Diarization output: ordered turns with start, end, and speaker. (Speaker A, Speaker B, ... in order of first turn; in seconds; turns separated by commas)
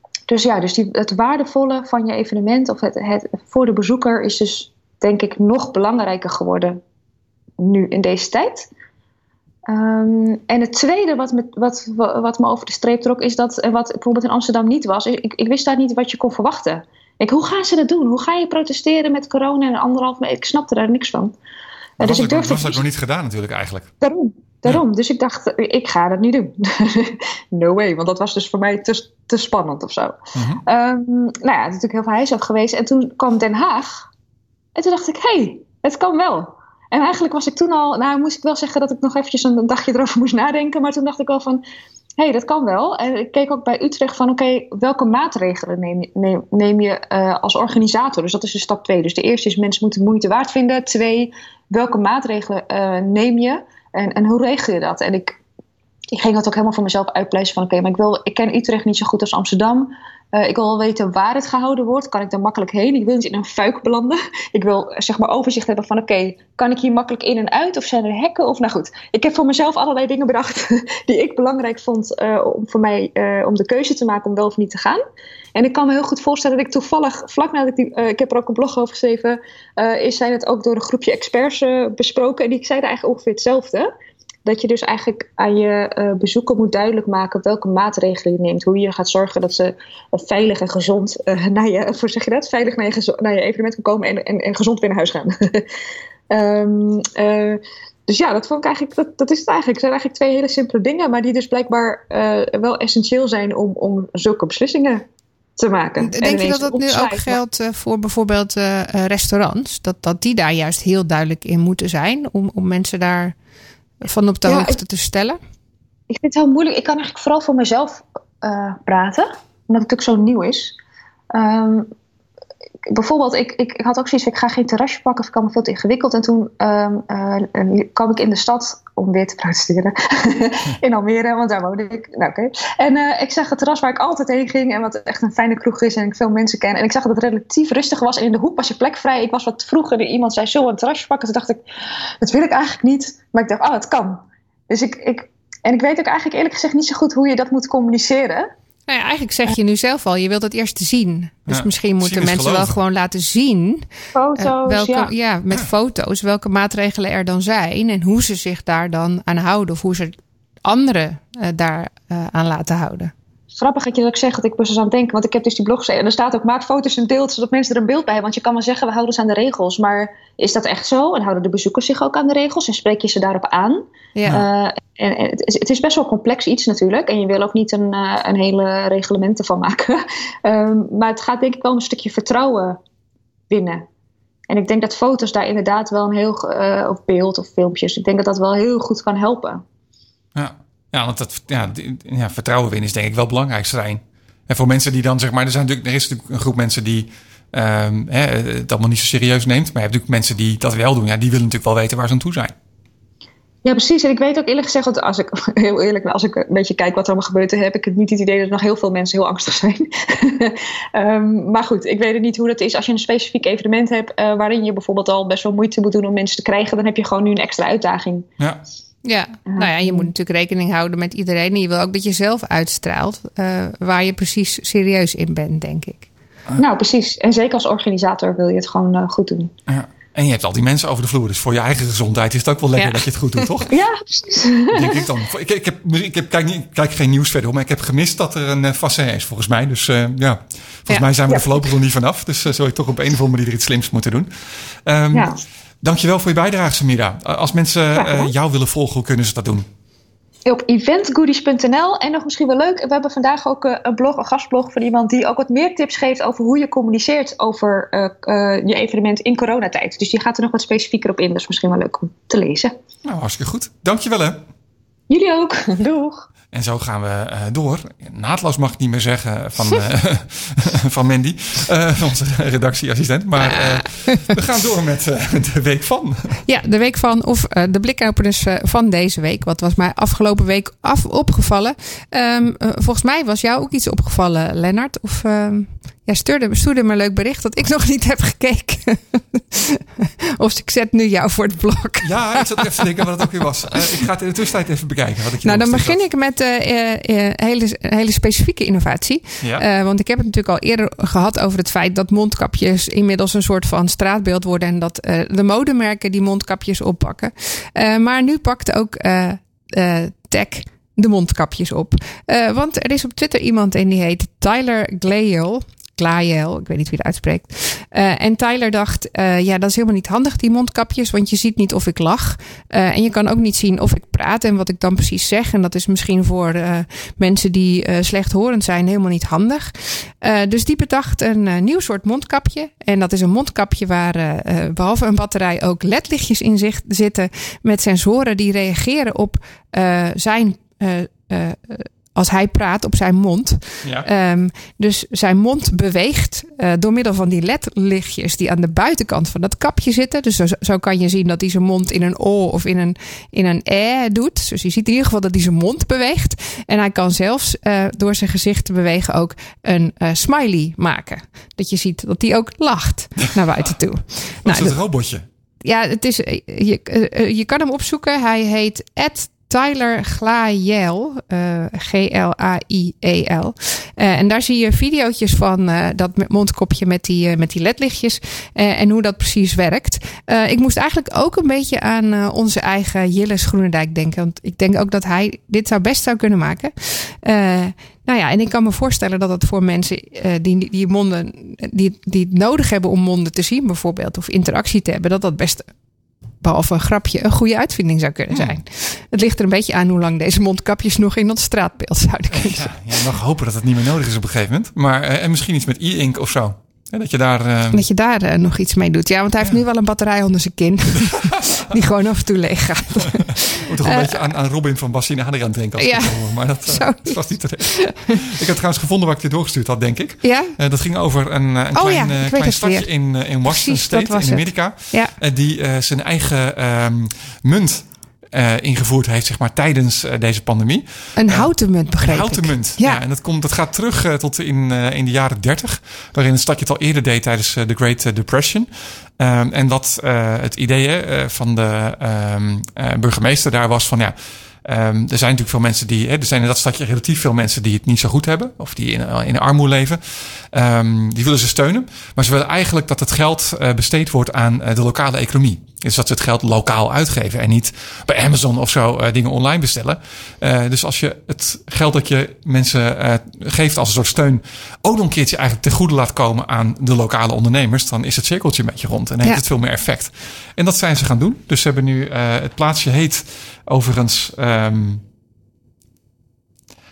Speaker A: 0.3-6.8, Speaker A: 7.6-8.7, Speaker A: 9.7-21.4, Speaker A: 22.0-22.8, Speaker B: 22.0-23.9, Speaker A: 24.0-34.1, Speaker B: 30.3-30.6, Speaker A: 34.8-41.6, Speaker A: 42.2-55.4, Speaker A: 56.1-75.0, Speaker A: 75.5-83.9, Speaker A: 84.5-95.7, Speaker A: 96.3-105.0, Speaker A: 105.6-107.4, Speaker C: 106.0-113.3, Speaker C: 114.0-115.4, Speaker A: 114.5-114.8, Speaker A: 116.1-120.8, Speaker A: 121.3-121.9, Speaker A: 122.9-141.6, Speaker A: 142.2-148.5, Speaker C: 148.9-163.1, Speaker B: 151.5-152.8, Speaker A: 154.1-155.1, Speaker A: 163.5-182.8, Speaker C: 174.2-174.4, Speaker A: 183.5-183.8, Speaker A: 184.5-189.6, Speaker B: 190.3-202.5, Speaker A: 203.6-218.3, Speaker C: 219.1-226.1, Speaker A: 219.5-220.1, Speaker A: 226.6-229.5, Speaker B: 229.7-233.7, Speaker C: 232.8-233.4, Speaker A: 233.7-235.0, Speaker B: 234.7-249.7, Speaker A: 241.3-241.5, Speaker A: 245.1-245.4, Speaker A: 247.9-248.3, Speaker A: 250.4-262.7, Speaker B: 263.1-264.4, Speaker A: 265.1-266.3, Speaker B: 266.5-276.4, Speaker C: 276.5-293.1, Speaker B: 292.0-296.0, Speaker C: 295.4-364.8, Speaker B: 343.8-344.1, Speaker B: 364.4-365.2, Speaker C: 365.6-395.7, Speaker C: 396.4-402.7, Speaker B: 398.3-398.6, Speaker B: 402.3-407.8, Speaker C: 407.7-414.3, Speaker B: 413.6-475.0, Speaker C: 415.8-418.2, Speaker C: 420.2-420.6, Speaker C: 421.7-422.9, Speaker C: 423.4-425.1, Speaker C: 431.1-433.0